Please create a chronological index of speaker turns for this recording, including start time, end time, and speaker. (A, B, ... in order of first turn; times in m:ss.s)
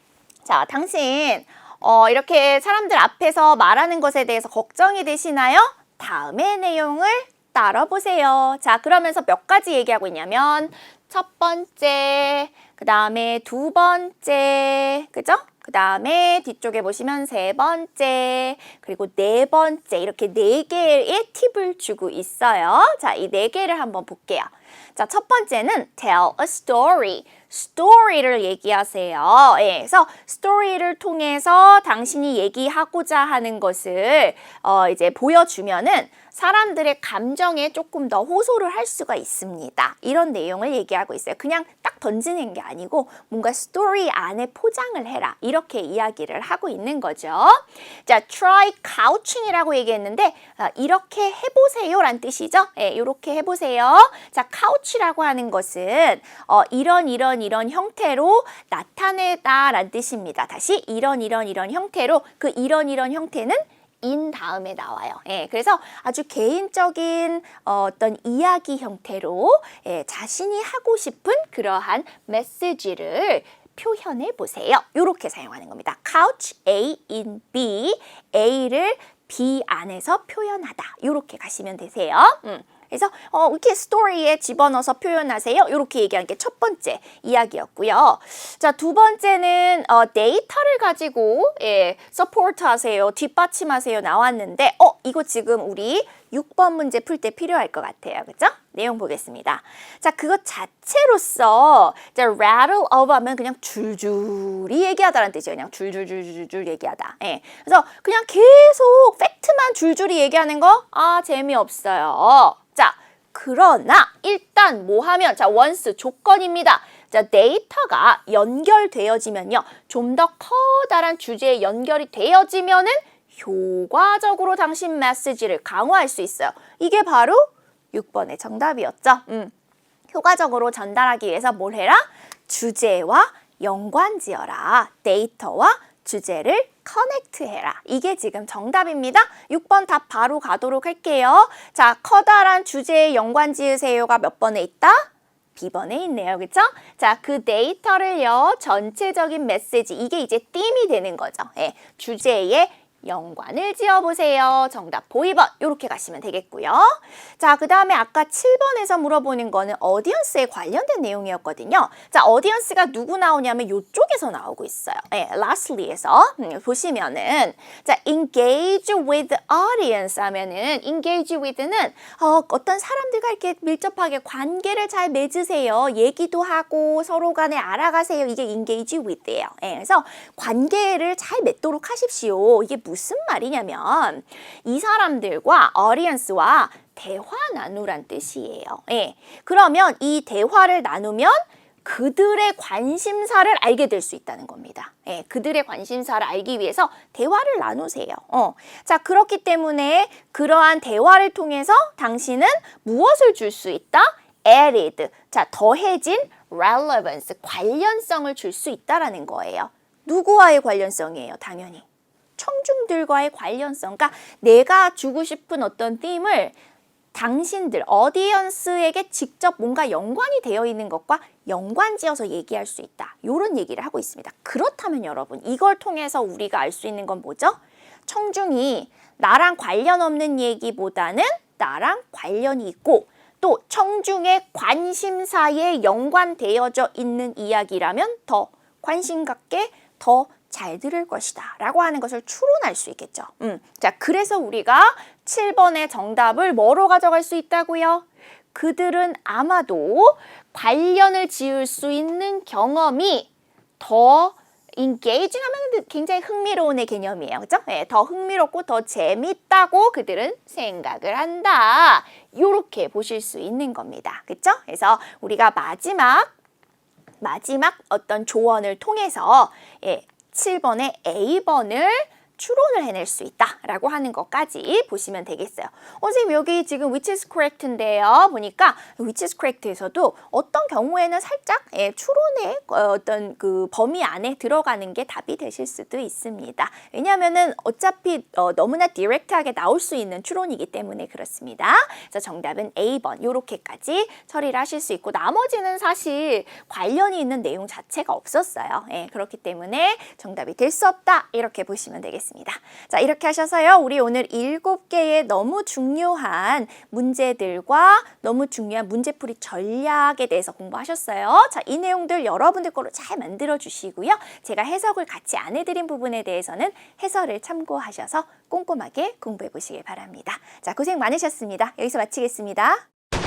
0:00.4-2:09.5 A
2:10.1-3:31.8 A
3:32.4-3:36.6 A
3:37.1-4:13.3 A
4:13.8-4:26.3 A
4:27.2-5:22.8 A